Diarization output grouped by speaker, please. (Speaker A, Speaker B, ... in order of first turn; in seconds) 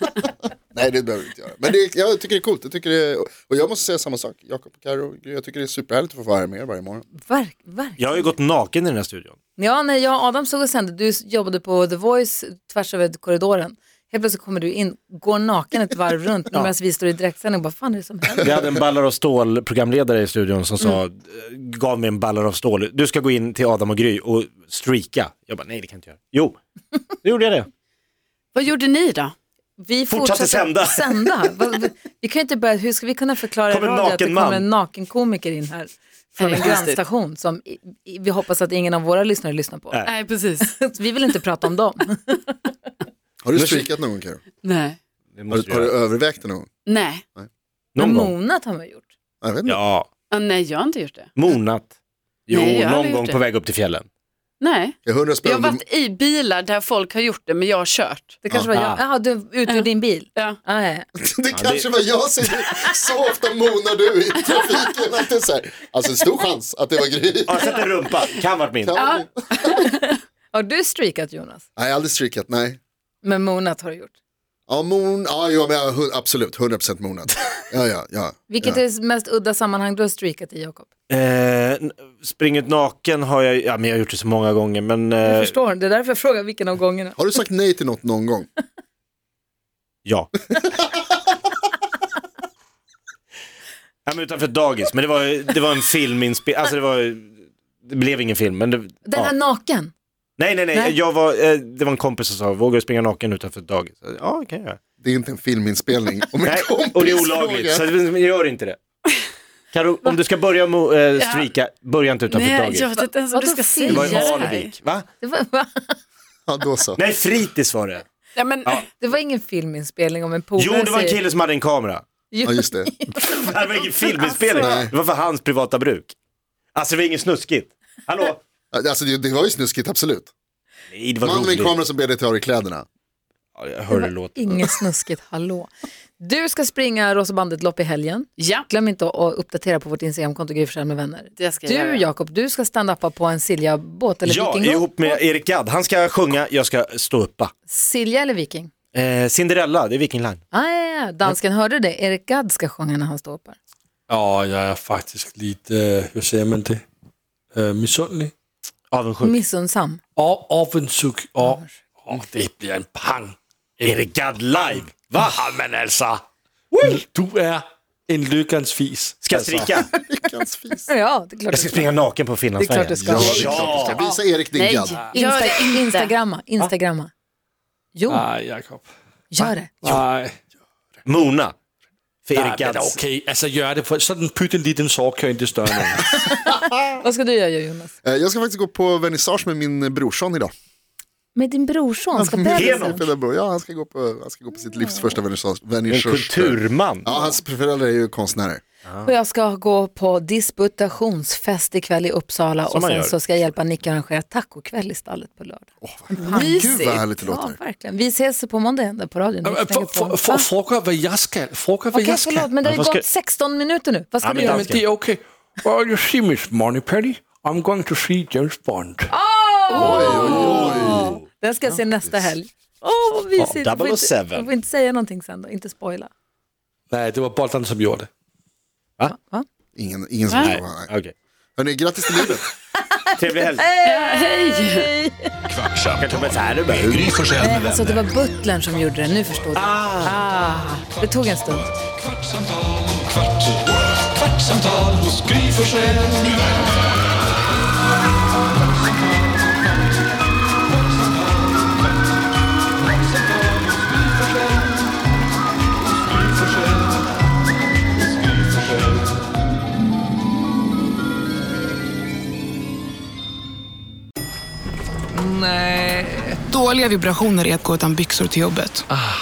Speaker A: 0.7-7.1, 43.4-44.4, 45.5-46.7, 49.4-49.8, 55.0-55.8, 61.2-67.7, 68.8-69.7, 71.8-72.8, 74.7-78.8, 87.2-88.5, 105.0-107.9, 116.5-117.0, 122.4-122.9, 124.6-124.9, 128.7-130.3, 131.2-132.9, 169.9-170.9, 173.0-175.0, 188.0-190.5, 192.2-198.6, 205.8-207.6, 219.7-221.2, 229.8-230.9, 231.6-232.4
Speaker B: 7.2-8.3, 9.6-18.6, 29.8-40.0, 40.6-42.5, 48.0-49.0, 58.4-61.1, 69.7-71.7, 73.2-74.1, 78.5-80.9, 85.2-87.2, 99.1-99.9, 113.0-116.0, 119.0-121.2, 122.3-124.8, 133.9-145.2, 147.7-148.7, 150.5-153.6, 159.2-160.0, 161.4-161.7, 170.9-171.9, 172.6-174.2, 175.1-177.1, 177.9-178.3, 179.3-179.8, 187.0-187.9, 191.3-193.0, 197.1-197.4, 199.0-210.5, 211.9-214.7, 219.1-226.1, 229.0-229.5, 233.0-235.3, 237.4-241.7
Speaker C: 8.0-9.4, 18.4-26.6, 27.2-27.7, 30.1-31.3, 33.7-34.7, 43.6-43.9, 45.4-46.0, 48.0-48.3, 49.7-50.1, 51.4-51.9, 52.5-54.1, 58.7-59.0, 61.5-61.9, 67.5-69.0, 81.1-85.5, 90.0-90.4, 94.1-99.3, 100.4-104.8, 106.4-108.8, 109.7-112.9, 113.9-115.1, 117.0-118.1, 120.6-122.0, 123.2-126.1, 126.8-128.4, 130.9-131.8, 133.6-134.8, 144.3-147.5, 148.9-150.4, 158.9-159.4, 163.8-165.4, 166.7-167.0, 169.2-169.9, 171.5-174.0, 181.1-181.5, 182.3-183.0, 192.5-193.0, 195.9-197.1, 202.7-203.2, 212.7-213.0, 214.2-214.8, 220.0-221.2, 223.4-224.5, 230.4-231.1, 233.2-233.7, 236.0-237.0, 239.6-240.2
Speaker D: 28.6-29.3, 36.4-37.0, 40.0-40.7, 44.6-45.0, 46.9-47.2, 50.3-51.4, 52.5-53.4, 54.6-58.3, 69.0-69.8, 111.2-111.5, 112.3-114.7, 118.4-118.9, 138.4-138.7, 141.4-142.1, 174.6-176.1, 206.2-207.0, 230.3-230.6, 233.8-234.9
Speaker E: 154.1-156.8, 157.5-158.3, 160.2-164.1, 165.0-166.2, 166.8-169.8, 173.4-173.8, 178.1-178.9, 179.4-180.4, 182.3-186.3, 209.4-212.5, 214.4-219.1, 226.9-228.1, 244.8-246.3
Speaker F: 235.5-238.1
Speaker G: 265.1-268.9